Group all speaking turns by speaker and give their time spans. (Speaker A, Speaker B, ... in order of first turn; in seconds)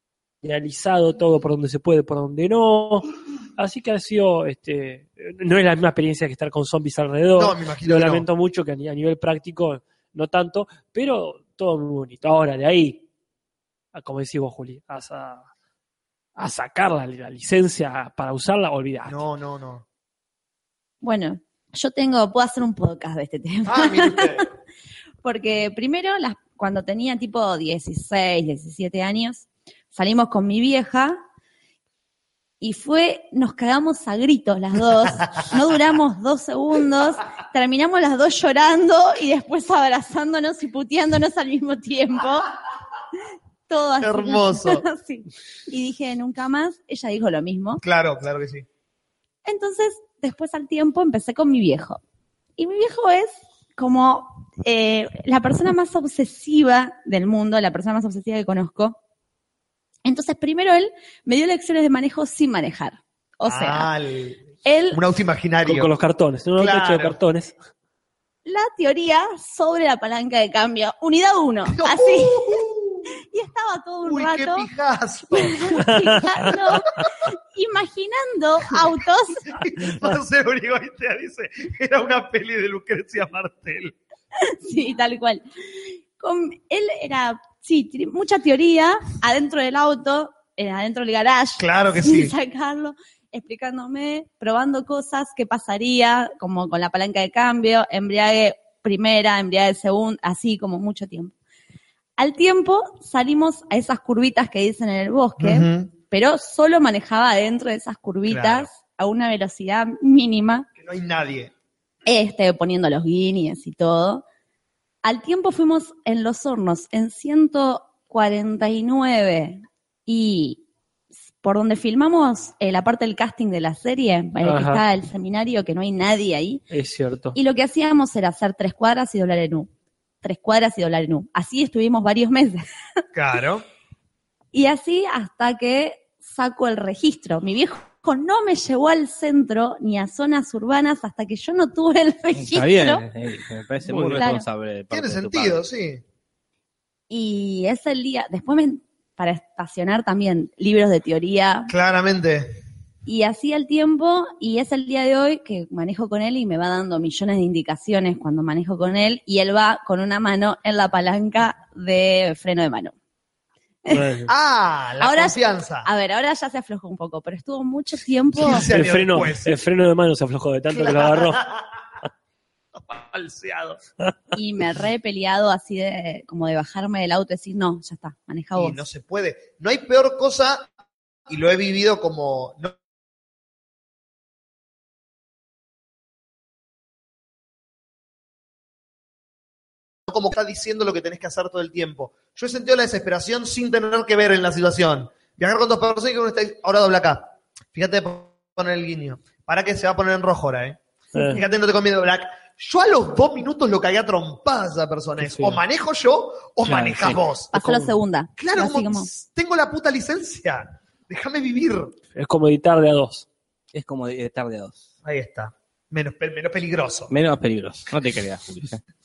Speaker A: 0.4-13.0, 13.9-15.5, 16.4-19.2, 65.6-67.5, 75.8-76.5, 124.4-124.8, 126.7-127.3, 143.9-144.2, 163.9-164.3, 168.6-171.4, 201.1-201.4, 205.2-205.6, 206.7-207.9, 212.1-213.2
Speaker B: 7.3-8.3, 19.0-19.8, 23.6-24.5, 44.0-44.9, 47.8-48.6, 63.4-65.9, 66.6-67.2, 71.7-73.1, 74.0-75.8, 79.5-83.9, 91.6-92.3, 105.4-105.9, 108.3-108.7, 110.8-111.5, 133.1-133.6, 144.9-146.0, 151.7-152.5, 164.2-165.9, 168.3-169.6, 170.7-171.7, 172.7-173.8, 178.5-180.7, 181.3-182.8, 190.1-207.5, 208.4-211.9, 215.0-217.1
Speaker C: 21.0-24.4, 25.2-31.2, 32.6-42.5, 43.7-47.8, 49.4-52.0, 52.6-59.0, 60.0-63.9, 64.6-65.0, 68.5-72.6, 73.3-74.7, 75.3-79.6, 84.5-85.4, 86.2-101.3, 102.2-110.7, 112.0-114.2, 115.0-120.6, 121.4-126.6, 127.3-129.7, 130.2-132.7, 134.5-143.0, 144.2-144.4, 147.1-151.7, 153.1-162.9, 165.0-168.7, 174.3-178.8, 207.5-209.1
Speaker D: 142.3-145.6, 213.7-214.8, 217.1-218.8